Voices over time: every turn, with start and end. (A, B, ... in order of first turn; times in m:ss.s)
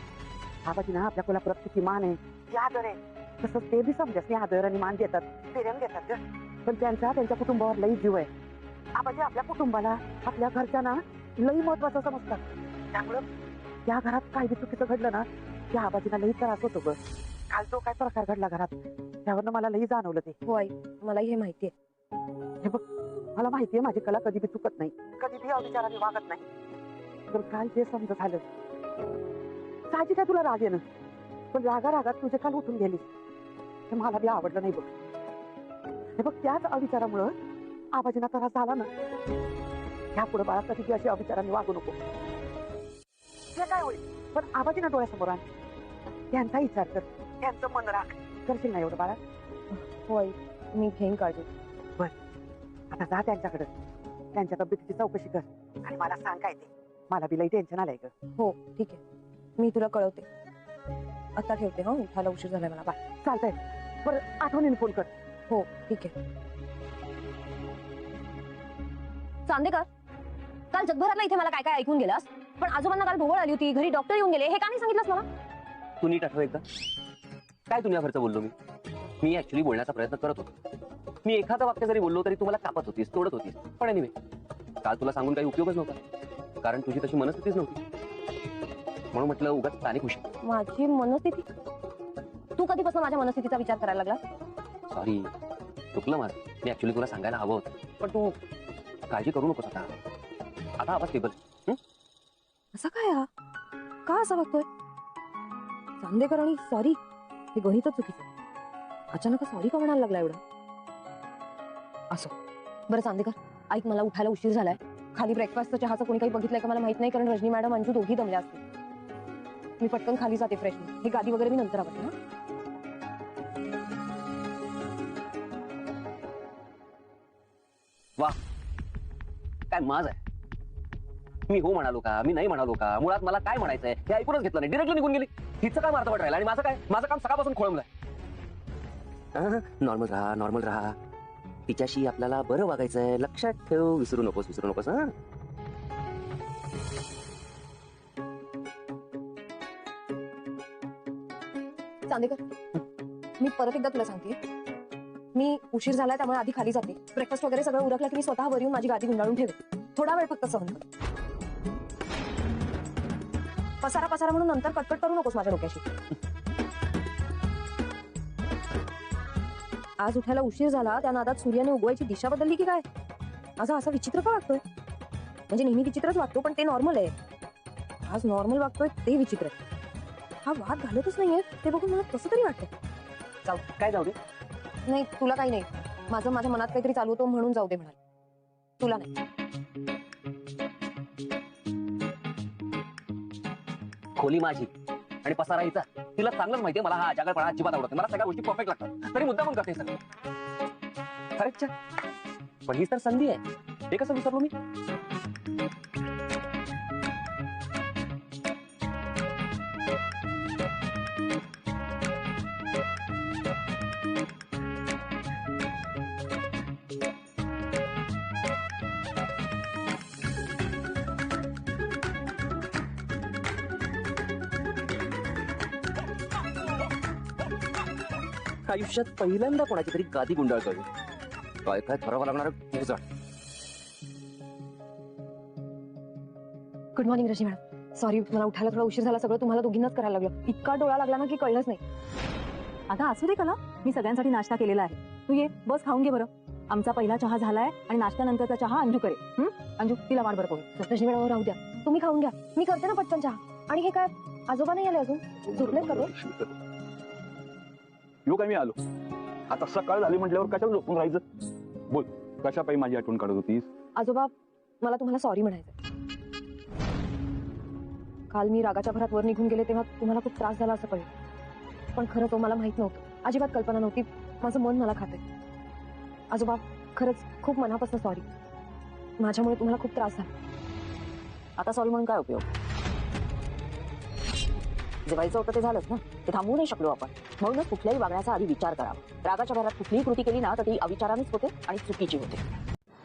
0:00.6-0:08.3 A
0:08.9-0:12.4 A
0:12.9-0:13.2 A
0:13.9-0:17.0 A
0:17.5-0:18.7 A
0:19.2-0:20.4 A
0:20.4-0:21.7 B
0:23.4-0:26.5 A
0:27.3-0:28.4 A
0:29.9-0:30.8 A
0:31.5-0:33.1 A
0:33.9-0:34.9 A
0:36.2-0:37.3 A
0:37.9-0:38.9 A
0:40.1-0:41.9 A
0:43.5-0:45.4 A
0:46.3-0:49.2 A
0:49.7-0:51.5 B
0:52.9-0:53.7 A
0:54.3-0:58.1 A
0:58.4-0:59.0 B
0:59.6-1:00.3 B
1:01.4-1:03.0 B
1:03.2-1:05.1 A
1:05.5-1:06.1 B
1:09.4-1:09.9 B
1:10.7-1:15.2 B
1:16.0-1:16.6 C
1:17.7-1:18.5 C
1:19.2-1:20.5 C
1:21.2-1:24.1 C
1:24.8-1:26.0 C
1:26.6-1:27.8 C
1:29.1-1:30.3 C
1:30.4-1:31.5 B
1:32.6-1:34.2 B
1:34.9-1:35.3 C
1:35.9-1:38.4 C
1:39.1-1:39.9 C
1:40.8-1:41.8 C
1:42.7-1:43.3 B
1:44.0-1:44.7 B
1:46.0-1:47.0 B
1:47.5-1:48.2 B
1:49.1-1:50.4 B
1:52.9-1:58.6 B
1:59.8-2:02.1 B
2:09.7-2:10.2 C
2:11.5-2:17.9 C
2:19.3-2:21.0 C
2:21.7-2:25.1 C
2:32.1-2:32.5 B
2:33.4-2:34.4 B
2:35.3-2:40.8 B
2:43.8-2:45.8 B
2:50.0-2:52.8 B
2:53.6-2:54.6 B
2:55.5-2:57.1 B
2:58.0-2:59.6 B
3:00.4-3:02.7 B
3:03.8-3:04.2 C
3:04.9-3:08.0 B
3:08.8-3:09.1 B
3:14.2-3:14.7 C
3:15.2-3:19.9 C
3:21.4-3:21.7 C
3:22.6-3:24.5 C
3:48.6-3:50.8 C
3:51.6-3:53.0 C
3:57.0-4:01.8 B
4:02.9-4:10.7 D
4:10.6-4:16.1 B
4:15.4-4:16.6 E
4:18.2-4:18.8 E
4:19.5-4:21.2 E
4:21.9-4:23.7 E
4:24.0-4:25.7 B
4:28.3-4:31.1 B
4:31.9-4:35.2 B
4:36.3-4:38.2 B
4:39.2-4:40.3 B
4:41.6-4:42.4 F
4:45.1-4:52.4 F